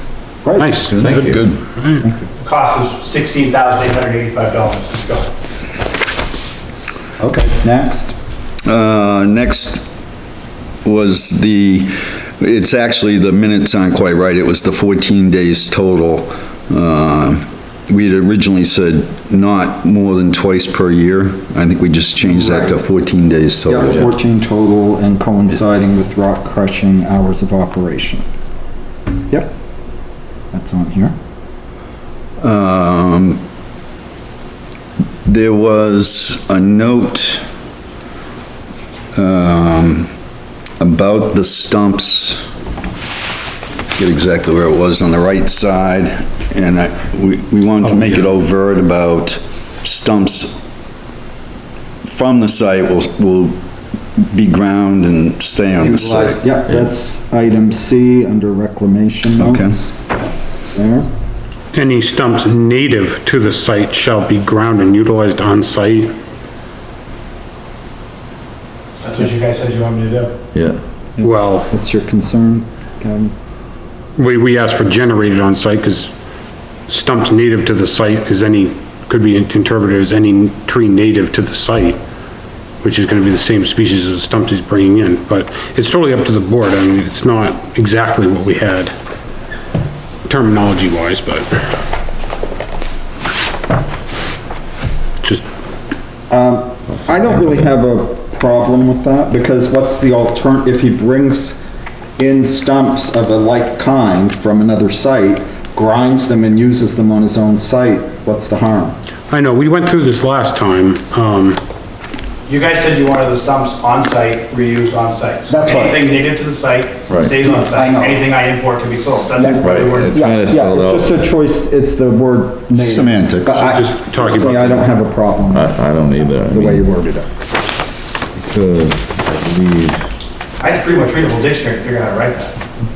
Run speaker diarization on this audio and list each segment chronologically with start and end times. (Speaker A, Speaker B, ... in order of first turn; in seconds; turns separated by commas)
Speaker A: 0.4-0.7, Speaker B: 0.6-2.1, Speaker C: 1.0-1.4, Speaker D: 1.2-1.6, Speaker E: 2.4-5.3, Speaker A: 7.2-8.2, Speaker D: 8.7-9.9, Speaker D: 10.8-24.1, Speaker A: 22.2-22.8, Speaker A: 23.7-28.2, Speaker A: 30.5-31.1, Speaker D: 32.4-33.4, Speaker D: 35.2-37.4, Speaker D: 39.1-40.1, Speaker D: 40.8-42.5, Speaker D: 44.0-50.6, Speaker B: 47.8-48.3, Speaker D: 52.0-53.6, Speaker D: 54.2-56.4, Speaker A: 55.8-61.1, Speaker D: 59.4-59.8, Speaker B: 61.7-66.1, Speaker E: 69.0-70.3, Speaker C: 70.5-70.8, Speaker A: 71.2-73.3, Speaker B: 71.2-71.7, Speaker B: 74.2-76.1, Speaker B: 76.9-82.0, Speaker B: 82.8-88.9, Speaker B: 90.3-91.5, Speaker A: 96.3-101.6, Speaker A: 102.2-109.0, Speaker B: 109.3-111.6, Speaker E: 112.5-120.2, Speaker A: 115.5-116.0, Speaker C: 117.1-117.3, Speaker A: 117.6-118.2, Speaker A: 119.4-125.7, Speaker C: 119.6-121.1, Speaker D: 122.7-123.6, Speaker B: 123.5-124.9, Speaker C: 125.5-127.0, Speaker A: 126.5-127.3, Speaker C: 128.4-130.0, Speaker E: 130.6-132.6